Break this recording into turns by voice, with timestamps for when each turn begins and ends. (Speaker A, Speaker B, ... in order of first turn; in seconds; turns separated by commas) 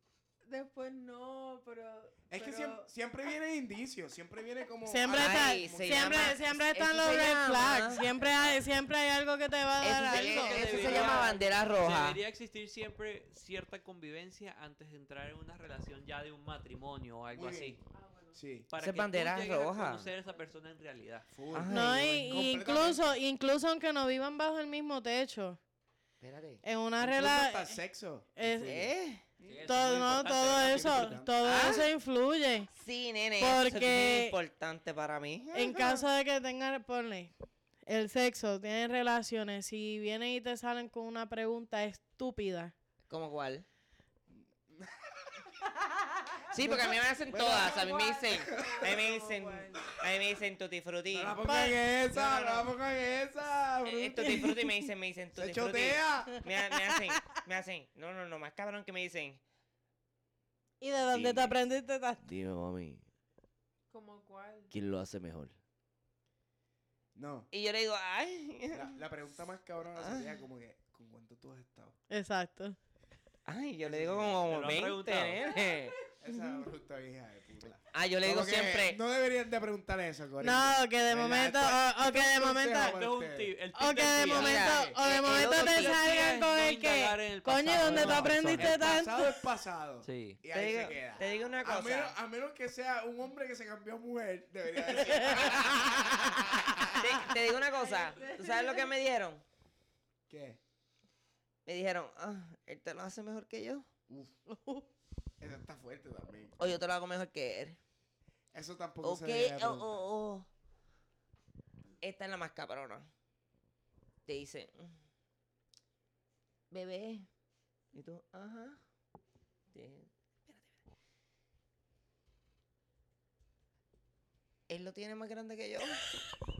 Speaker A: 0.4-2.9, Speaker B: 2.3-6.4, Speaker C: 4.8-11.2, Speaker D: 5.1-8.0, Speaker D: 9.8-12.2, Speaker E: 10.0-17.8, Speaker B: 17.3-18.7, Speaker A: 17.9-18.4, Speaker E: 18.7-21.3, Speaker D: 18.8-20.1, Speaker A: 20.0-20.4, Speaker B: 21.3-23.1, Speaker D: 21.5-22.5, Speaker C: 21.7-25.6, Speaker D: 26.2-26.6, Speaker C: 26.6-27.8, Speaker B: 27.0-31.7, Speaker C: 28.4-28.9, Speaker D: 28.6-29.2, Speaker E: 29.4-31.1, Speaker C: 29.6-32.7, Speaker D: 31.4-31.9, Speaker D: 32.7-36.0, Speaker C: 33.4-34.4, Speaker C: 35.5-37.3, Speaker C: 37.9-42.7, Speaker D: 43.1-43.6, Speaker B: 44.3-45.5, Speaker A: 45.8-46.8, Speaker D: 46.5-51.4, Speaker B: 46.5-49.1, Speaker A: 47.4-50.0, Speaker B: 51.1-54.6, Speaker C: 51.5-51.8, Speaker D: 52.1-52.7, Speaker D: 53.8-59.4, Speaker C: 54.2-54.8, Speaker B: 55.3-56.4, Speaker C: 60.8-62.2, Speaker D: 61.1-61.6, Speaker D: 62.2-63.1, Speaker A: 63.9-64.7, Speaker D: 64.7-65.5, Speaker B: 67.1-67.5, Speaker D: 67.5-69.0, Speaker B: 68.7-72.0, Speaker D: 69.9-70.3, Speaker C: 72.1-72.8, Speaker D: 73.5-76.0, Speaker B: 73.8-74.5, Speaker E: 74.5-75.4, Speaker B: 76.2-83.5, Speaker D: 77.9-79.0, Speaker C: 80.4-83.0, Speaker E: 82.9-88.8, Speaker C: 83.7-89.2, Speaker D: 84.3-86.0, Speaker B: 87.8-97.3, Speaker E: 90.0-90.4, Speaker D: 90.5-92.1, Speaker D: 94.9-96.3, Speaker D: 97.0-99.4, Speaker A: 97.5-98.9, Speaker B: 100.3-100.6, Speaker D: 101.7-103.9, Speaker B: 104.1-104.4, Speaker B: 105.4-106.8, Speaker D: 106.6-107.8, Speaker B: 108.5-110.0, Speaker D: 109.0-110.5, Speaker D: 112.0-113.1, Speaker D: 114.2-115.0, Speaker D: 116.7-117.3, Speaker D: 117.9-118.8, Speaker D: 119.7-120.8, Speaker D: 124.7-126.1